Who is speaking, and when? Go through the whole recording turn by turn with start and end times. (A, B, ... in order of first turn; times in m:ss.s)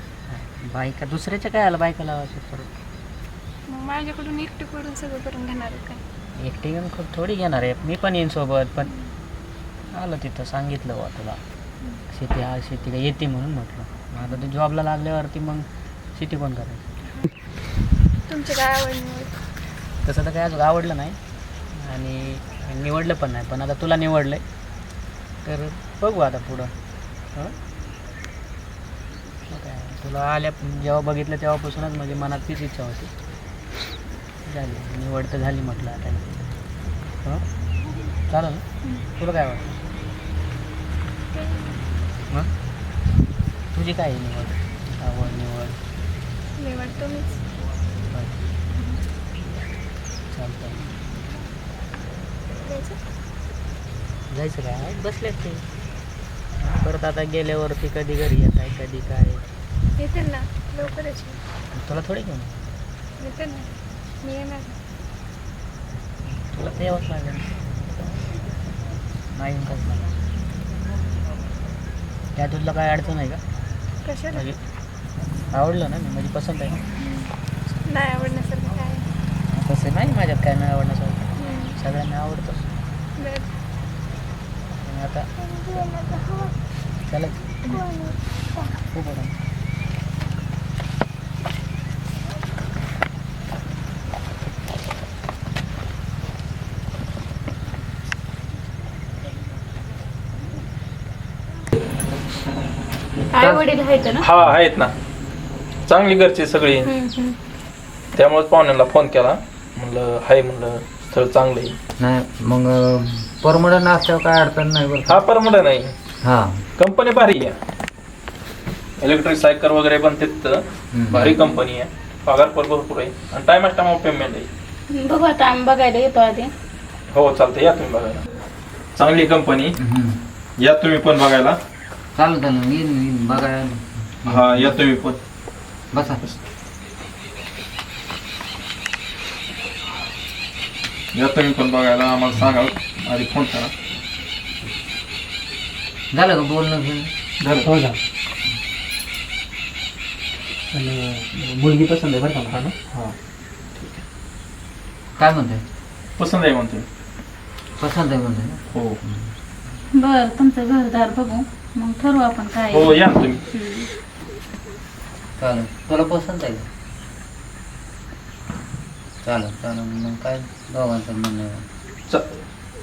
0:00.3-0:02.7 A
0:03.7-0:06.0 B
0:06.4-0:08.9 A
0:09.9-0:11.4 A
0:12.1-0:16.8 A
0:18.3-0:19.4 B
0:20.0-0:21.2 A
0:21.7-0:24.4 A
0:25.4-0:26.7 A
0:29.5-0:33.1 A
0:34.4-0:36.2 A
0:38.3-0:38.6 A
0:39.2-0:39.8 A
0:41.3-0:41.8 B
0:43.7-0:45.8 A
0:46.6-0:47.4 B
0:48.1-0:48.4 A
0:48.8-0:49.0 B
0:50.3-0:50.9 A
0:52.6-0:53.0 B
0:54.3-0:55.6 A
0:56.6-0:59.4 A
1:00.0-1:01.4 B
1:01.7-1:02.6 A
1:03.2-1:04.8 B
1:06.3-1:07.6 A
1:09.3-1:10.1 A
1:12.4-1:13.4 A
1:14.0-1:14.4 B
1:14.3-1:14.6 A
1:15.5-1:16.8 A
1:17.0-1:17.3 B
1:17.8-1:19.1 B
1:19.5-1:22.7 A
1:21.4-1:21.8 B
1:23.2-1:23.5 B
1:24.8-1:25.3 A
1:25.4-1:26.5 B
1:27.1-1:27.8 A
1:27.6-1:28.7 B
1:28.9-1:29.3 A
1:43.4-1:43.7 C
1:43.4-1:44.2 D
1:44.2-1:44.9 E
1:45.9-1:46.9 E
1:47.0-1:47.3 D
1:48.2-1:51.8 E
1:52.0-1:55.2 C
1:55.1-1:55.9 E
1:56.2-1:56.7 C
1:56.8-1:57.6 E
1:59.0-2:04.5 E
2:00.9-2:01.4 C
2:05.0-2:06.5 D
2:07.1-2:08.2 E
2:09.0-2:09.8 E
2:09.8-2:10.2 C
2:10.6-2:11.6 E
2:12.2-2:14.8 C
2:14.3-2:15.2 E
2:15.9-2:16.2 C
2:21.1-2:23.7 E
2:26.1-2:27.1 C
2:27.4-2:27.7 E
2:27.6-2:28.0 A
2:30.7-2:32.6 A
2:32.5-2:33.2 E
2:35.2-2:35.6 C
2:36.2-2:36.9 E
2:37.8-2:39.3 C
2:38.7-2:39.0 E
2:40.1-2:42.8 D
2:42.7-2:43.4 E
2:45.4-2:46.7 C
2:49.2-2:51.7 C
2:52.1-2:52.3 E